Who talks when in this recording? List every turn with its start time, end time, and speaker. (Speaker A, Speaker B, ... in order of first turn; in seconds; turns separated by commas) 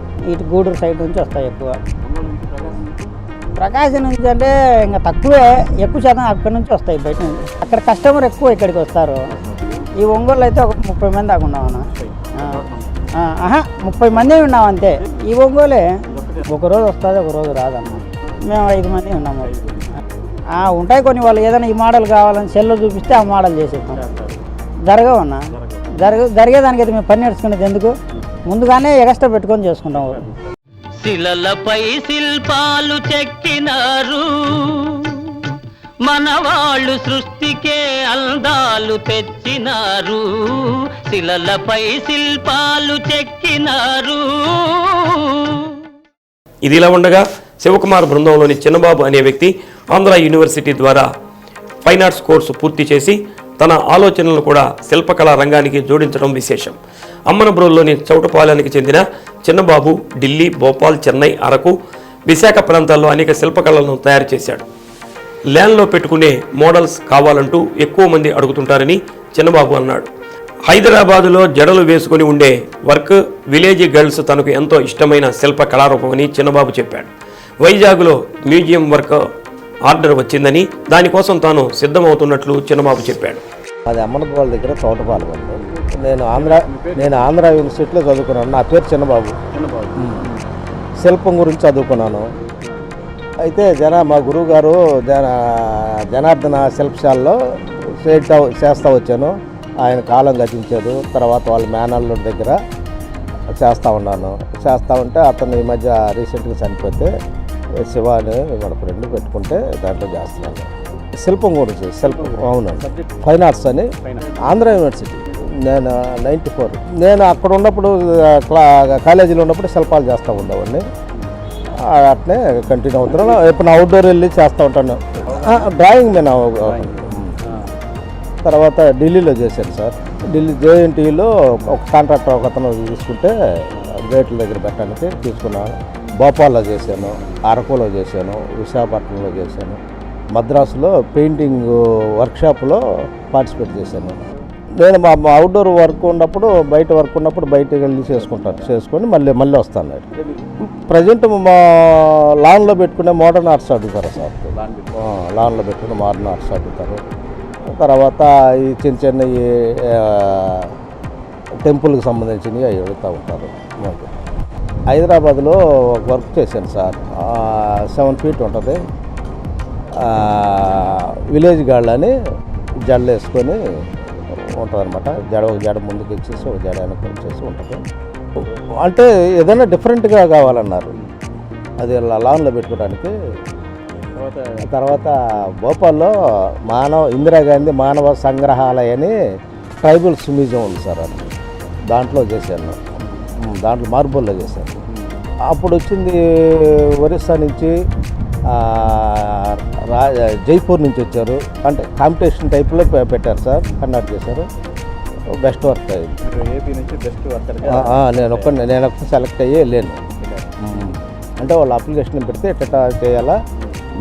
Speaker A: 0.3-1.7, Speaker B: 2.0-3.1, Speaker A: 3.6-9.2, Speaker B: 9.3-9.9, Speaker A: 10.0-11.8, Speaker B: 11.9-13.1, Speaker A: 13.2-15.8, Speaker B: 14.1-14.5, Speaker B: 16.1-16.5, Speaker A: 16.5-19.5, Speaker B: 19.4-19.9, Speaker A: 20.6-24.0, Speaker B: 23.9-24.4, Speaker A: 24.9-25.4, Speaker B: 25.5-26.1, Speaker A: 26.0-27.9, Speaker A: 28.5-30.2, Speaker B: 29.9-30.3, Speaker C: 31.0-35.5, Speaker C: 36.0-45.8, Speaker D: 46.6-51.1, Speaker D: 51.8-56.8, Speaker D: 57.3-61.7, Speaker D: 62.3-64.6, Speaker D: 65.5-70.1, Speaker D: 70.7-77.1, Speaker D: 77.6-79.2, Speaker D: 79.8-83.4, Speaker E: 83.9-89.3, Speaker B: 85.6-87.3, Speaker B: 89.5-90.4, Speaker E: 90.0-90.2, Speaker E: 91.0-92.3, Speaker E: 93.4-97.4, Speaker E: 98.0-102.6, Speaker E: 103.6-107.1, Speaker E: 107.8-113.9, Speaker B: 112.0-113.2, Speaker B: 114.0-114.6, Speaker E: 114.4-120.8, Speaker E: 121.8-127.3, Speaker B: 123.1-123.4, Speaker B: 125.2-125.7, Speaker B: 126.7-127.7, Speaker E: 128.4-139.8, Speaker E: 140.3-144.2, Speaker E: 144.8-150.1, Speaker B: 148.2-148.6, Speaker B: 150.2-150.5, Speaker E: 150.8-157.0, Speaker B: 154.5-155.1, Speaker E: 157.7-160.7, Speaker E: 161.6-164.1, Speaker E: 164.9-168.8, Speaker E: 169.9-172.1, Speaker E: 172.9-173.6, Speaker E: 174.5-177.8, Speaker E: 178.6-180.9, Speaker E: 181.8-183.1, Speaker B: 184.1-184.6, Speaker E: 184.6-186.1, Speaker E: 186.7-189.1, Speaker E: 189.8-191.3, Speaker E: 191.9-192.8, Speaker E: 193.4-194.8, Speaker E: 195.5-197.7, Speaker E: 198.5-204.5, Speaker E: 205.3-206.2, Speaker B: 206.2-208.5, Speaker E: 207.6-210.0, Speaker B: 210.2-210.5, Speaker E: 210.6-213.3